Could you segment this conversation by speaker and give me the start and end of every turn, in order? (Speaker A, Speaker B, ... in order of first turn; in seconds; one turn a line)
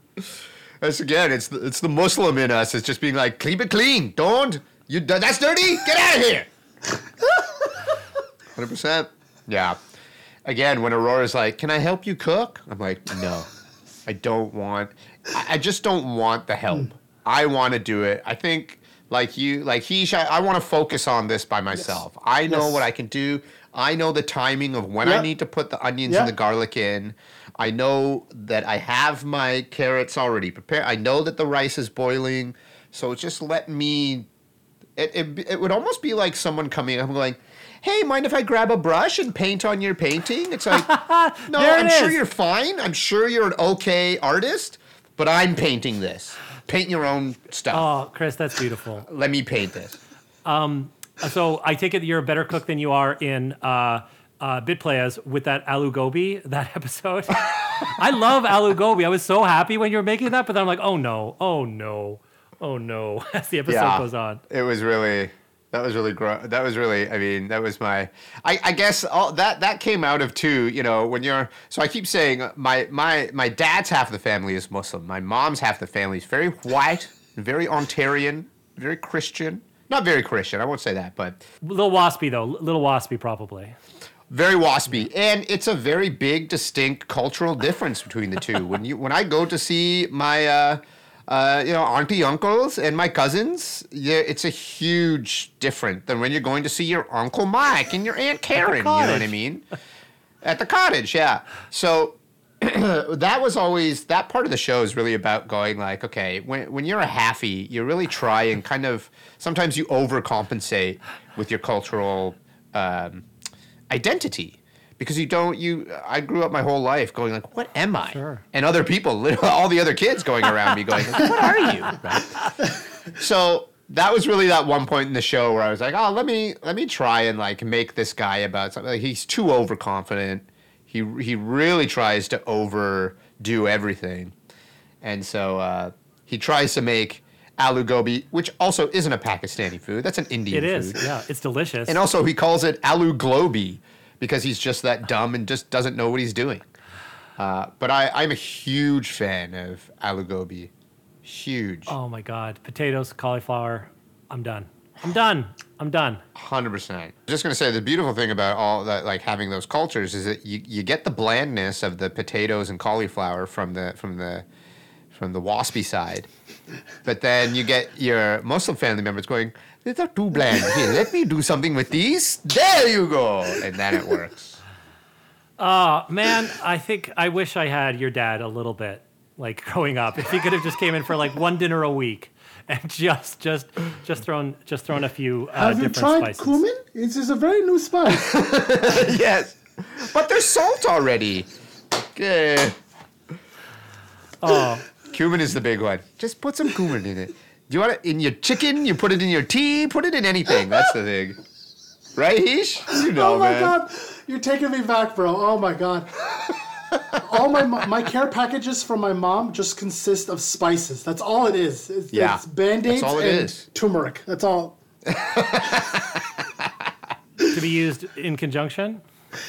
Speaker A: 0.2-6.5
Speaker A: 8.5-9.8
Speaker A: 10.4-13.5
Speaker A: 14.0-34.3
Speaker B: 22.5-22.8
Speaker B: 25.0-25.3
Speaker B: 26.0-26.3
Speaker A: 35.0-40.9
Speaker C: 40.7-42.2
Speaker A: 41.4-47.9
Speaker C: 47.7-49.0
Speaker A: 49.0-50.0
Speaker C: 50.4-64.4
Speaker A: 63.7-81.4
Speaker C: 81.6-83.8
Speaker A: 84.3-99.6
Speaker C: 98.6-99.3
Speaker A: 100.4-113.2
Speaker A: 113.9-122.4
Speaker C: 118.0-118.4
Speaker A: 123.2-134.3
Speaker A: 135.0-141.0
Speaker C: 140.5-142.0
Speaker A: 141.9-146.7
Speaker A: 147.4-150.7
Speaker A: 151.2-151.9
Speaker C: 151.9-156.2
Speaker A: 156.3-164.4
Speaker A: 165.1-166.3
Speaker A: 167.0-174.6
Speaker C: 175.6-186.6
Speaker B: 185.6-188.4
Speaker A: 188.1-192.8
Speaker C: 194.4-194.8
Speaker A: 195.1-201.4
Speaker A: 202.2-203.8
Speaker B: 202.9-206.3
Speaker B: 207.2-214.8
Speaker A: 212.1-213.7
Speaker A: 215.1-216.6
Speaker C: 217.5-219.0